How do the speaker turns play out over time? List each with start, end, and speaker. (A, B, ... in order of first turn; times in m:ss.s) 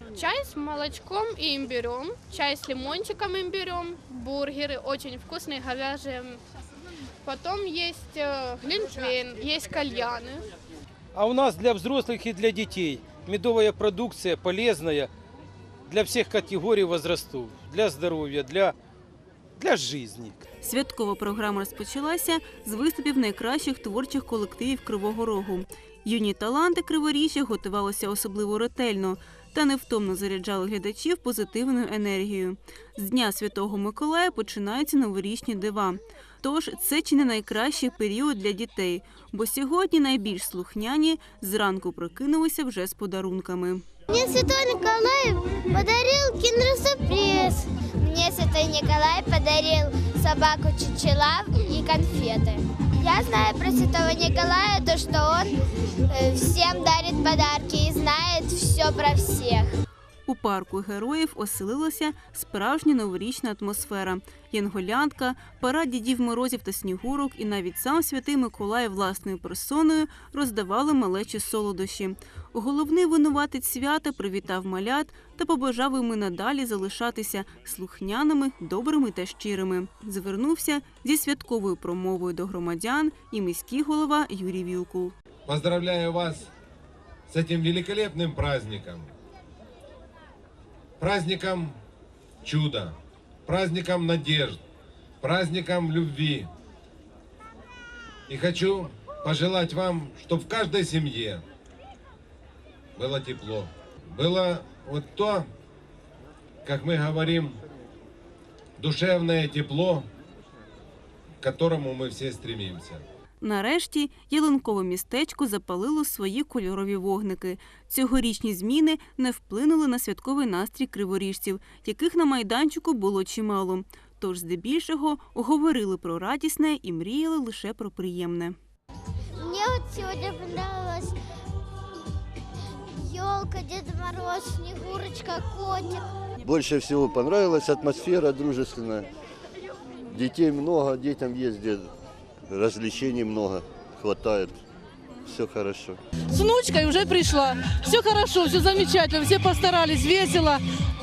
0:00.2-0:06.4 A
0:07.2-0:10.4 A
0:11.1-0:15.1 B
0:15.9-0:18.8 B
0:19.6-0:20.5 B
0:20.6-0:43.8 C
0:44.1-0:55.6 D
0:56.1-0:59.7 D
1:00.3-1:25.1 C
1:25.5-1:26.5 E
1:27.3-1:29.1 E
1:31.0-1:31.8 E
1:32.4-1:34.6 E
1:35.2-1:36.5 E
1:38.3-1:41.4 E
1:43.0-1:45.5 E
1:46.6-1:47.6 E
1:48.8-1:50.1 E
1:51.4-1:53.0 E
1:53.4-2:08.6 C
2:09.4-2:11.2 D
2:13.0-2:16.0 D
2:16.4-2:19.1 F
2:20.1-2:21.9 F
2:22.5-2:24.6 F
2:25.2-2:26.0 F
2:26.3-2:30.6 G